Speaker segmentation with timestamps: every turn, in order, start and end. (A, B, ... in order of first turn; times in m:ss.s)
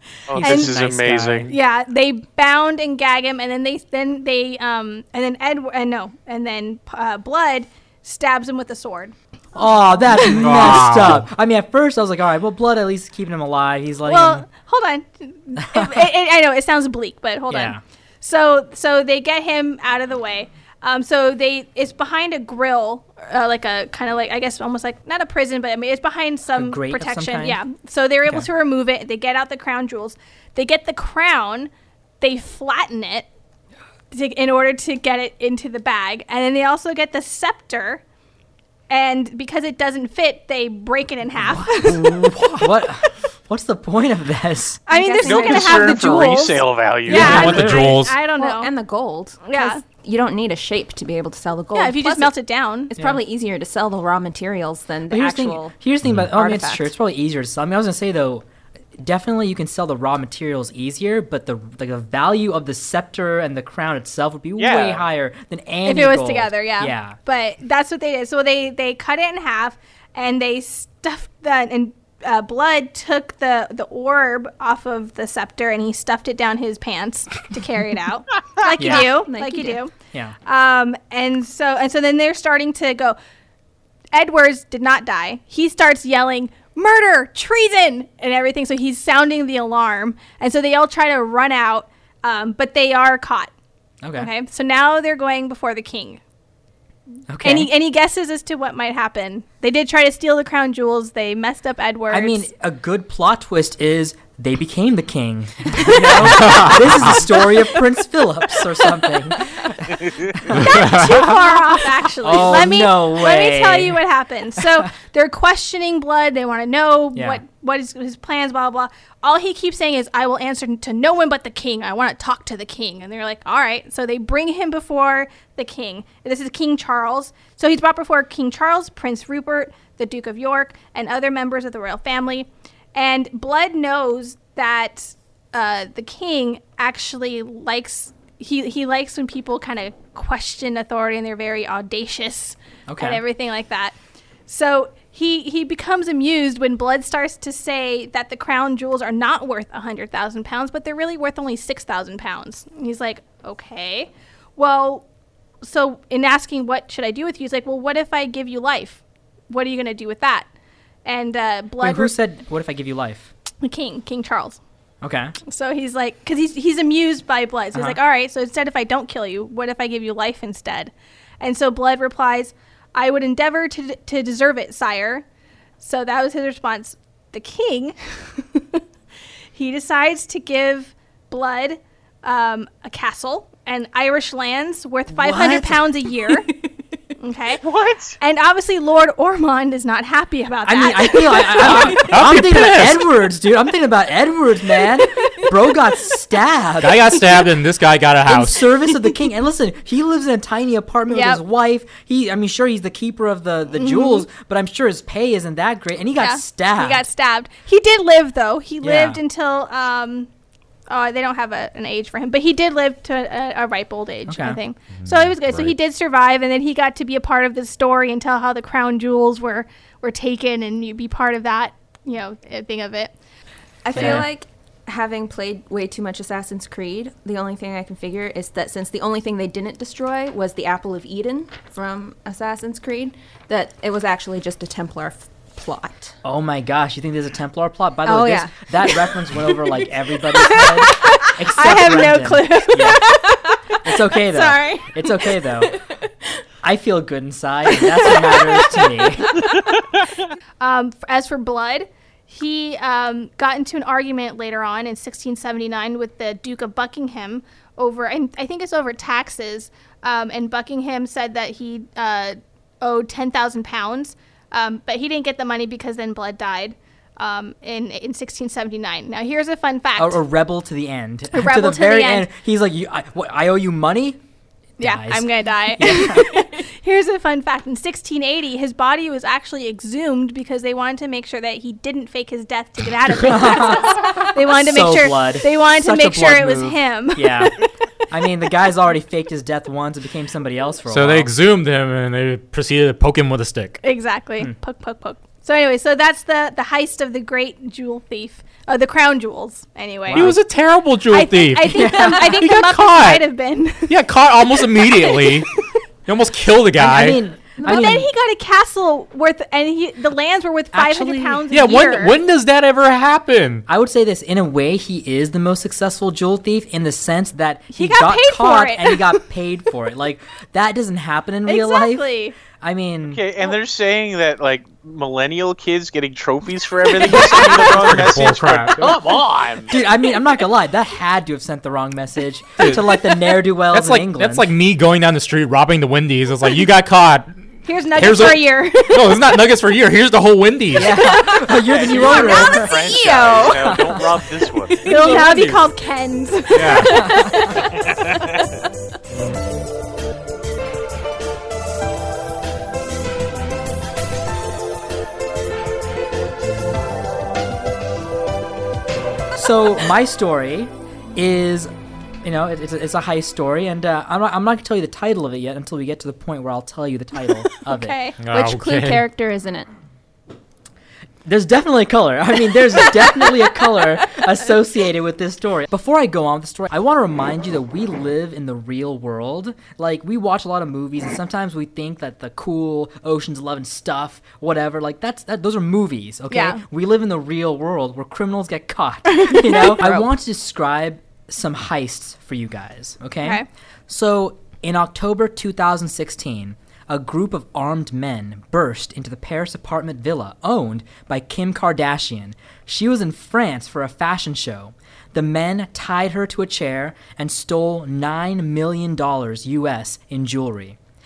0:00.3-0:01.5 A
0:00.3-0:01.5 B
0:00.4-0:00.8 C
0:01.5-0:09.2 C
0:09.6-0:14.5 B
0:10.1-0:10.6 C
0:10.4-0:11.2 D
0:14.0-0:33.3 C
0:15.6-0:16.1 B
0:17.5-0:17.8 B
0:26.6-0:27.6 B
0:34.1-0:38.0 C
0:38.9-0:42.6 C
0:41.4-0:46.0 B
0:44.9-0:48.7 C
0:44.9-0:45.5 E
0:45.2-0:47.5 A
0:47.1-0:47.9 B
0:47.1-0:48.2 D
0:48.3-0:52.3 E
0:49.4-0:49.8 C
0:51.7-0:52.9 C
0:52.9-0:55.8 E
0:53.0-0:53.2 B
0:55.1-0:58.4 B
0:56.3-0:56.9 E
0:59.0-1:07.2 B
1:04.6-1:05.0 A
1:05.8-1:19.9 C
1:18.8-1:19.8 E
1:18.8-1:19.1 B
1:20.4-1:23.2 C
1:24.1-1:33.5 C
1:34.0-1:34.3 B
1:34.2-1:36.2 C
1:37.3-1:37.7 B
1:37.4-1:42.5 C
1:42.1-1:51.3 B
1:45.8-1:46.7 C
1:46.3-1:46.8 D
1:48.6-1:49.1 C
1:50.0-1:50.3 A
1:50.5-2:24.0 C
1:50.6-1:51.3 D
1:52.2-1:54.0 B
1:57.2-1:57.4 B
2:22.9-2:23.2 B
2:24.5-2:35.1 C
2:35.6-2:40.5 C
2:41.0-2:42.2 C
2:41.8-2:43.3 B
2:43.6-2:44.6 C
2:45.0-2:45.3 B
2:45.5-2:55.2 C
2:55.8-2:58.8 C
2:59.5-3:06.5 C
3:05.1-3:06.1 B
3:07.2-3:07.6 C
3:07.6-3:08.2 A
3:08.2-3:12.1 C
3:10.6-3:17.4 B
3:11.7-3:13.1 D
3:16.8-3:18.7 D
3:18.2-3:27.0 B
3:21.1-3:21.4 C
3:23.8-3:24.2 C
3:26.2-3:30.3 C
3:28.8-3:29.2 B
3:30.9-3:43.1 C
3:34.3-3:34.6 B
3:35.0-3:35.7 D
3:43.8-3:56.2 E
3:43.9-3:44.3 B
3:56.2-4:03.1 B
3:58.1-3:59.6 E
4:00.3-4:03.4 C
4:03.8-4:05.8 B
4:04.1-4:05.0 C
4:06.6-4:09.5 B
4:10.6-4:30.2 C
4:30.0-4:34.2 B
4:31.3-4:32.3 C
4:34.8-4:36.5 B
4:34.8-4:47.6 C
4:43.3-4:47.6 B
4:48.1-4:51.3 B
4:50.9-4:53.8 D
4:53.8-5:00.5 C
5:00.1-5:00.4 B
5:00.1-5:03.3 D
5:01.1-5:04.0 C
5:01.8-5:02.4 B
5:03.9-5:07.8 D
5:04.5-5:05.8 C
5:06.8-5:08.1 B
5:07.6-5:12.2 C
5:10.7-5:11.5 B
5:11.5-5:13.6 D
5:13.7-5:23.2 B
5:17.7-5:19.2 C
5:21.5-5:22.4 C
5:23.1-5:29.8 A
5:27.2-5:27.5 B
5:27.2-5:29.0 D
5:29.7-5:34.5 B
5:32.6-5:32.9 D
5:33.7-5:37.4 D
5:37.7-5:39.2 C
5:38.0-5:41.0 D
5:40.8-5:42.8 B
5:41.5-5:45.3 A
5:41.9-5:43.8 E
5:43.6-5:44.1 B
5:44.8-5:48.2 C
5:44.9-5:45.7 D
5:46.5-5:47.3 D
5:47.8-5:48.4 A
5:59.4-6:01.7 B
6:02.2-6:08.0 B
6:07.6-6:08.2 C
6:08.2-6:09.0 D
6:08.3-6:09.7 E
6:11.2-6:50.8 B
6:26.3-6:26.6 C
6:29.1-6:30.0 C